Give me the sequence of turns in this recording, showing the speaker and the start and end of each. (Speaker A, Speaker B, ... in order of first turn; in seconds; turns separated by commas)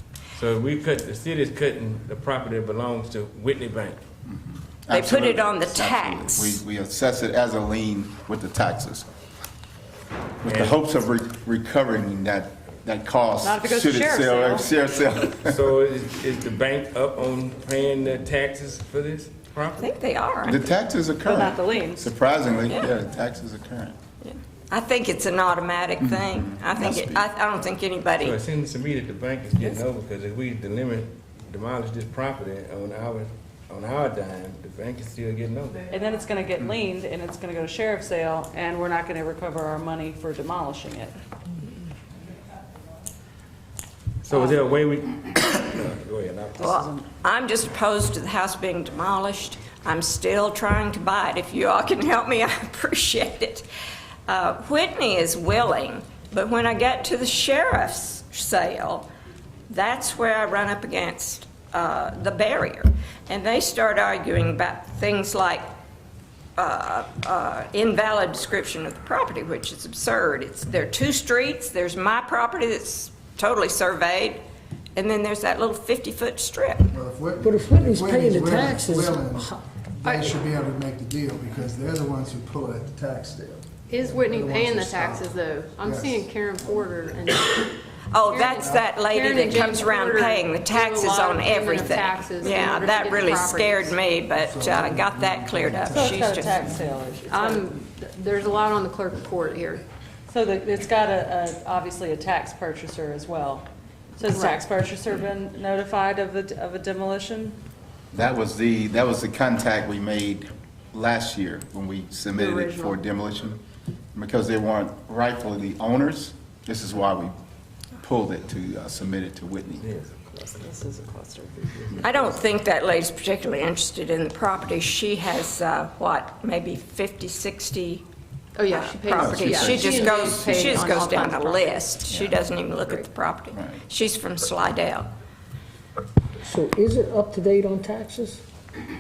Speaker A: 0.3-4.0, Speaker B: 4.2-9.1, Speaker C: 4.9-6.6, Speaker B: 10.4-15.6, Speaker A: 10.4-10.8, Speaker D: 13.4-14.7, Speaker A: 15.4-19.8, Speaker C: 19.8-20.6, Speaker B: 20.4-23.9, Speaker D: 21.2-22.1, Speaker C: 24.2-28.4, Speaker B: 26.0-27.2, Speaker A: 28.2-35.9, Speaker D: 35.9-41.1, Speaker A: 44.2-46.7, Speaker D: 44.3-44.6, Speaker D: 46.5-47.0, Speaker C: 46.6-53.7, Speaker C: 54.3-59.1, Speaker C: 59.7-65.7, Speaker C: 66.6-74.4, Speaker C: 74.9-76.9, Speaker E: 76.9-86.8, Speaker F: 77.4-79.5, Speaker G: 80.0-80.3, Speaker G: 83.9-94.0, Speaker C: 88.1-96.7, Speaker E: 88.5-88.8, Speaker E: 94.3-96.8, Speaker D: 95.8-97.8, Speaker G: 97.3-99.8, Speaker D: 100.3-103.7, Speaker D: 104.2-107.6, Speaker G: 104.2-104.6, Speaker B: 108.1-113.6, Speaker G: 112.3-113.0, Speaker B: 114.1-117.3, Speaker B: 118.0-119.8, Speaker A: 119.8-120.6, Speaker D: 120.4-121.8, Speaker A: 121.7-122.2, Speaker C: 122.0-128.0, Speaker G: 128.5-131.8, Speaker C: 128.7-135.1, Speaker B: 129.1-130.8, Speaker B: 132.1-132.4, Speaker B: 133.5-133.8, Speaker F: 136.4-138.4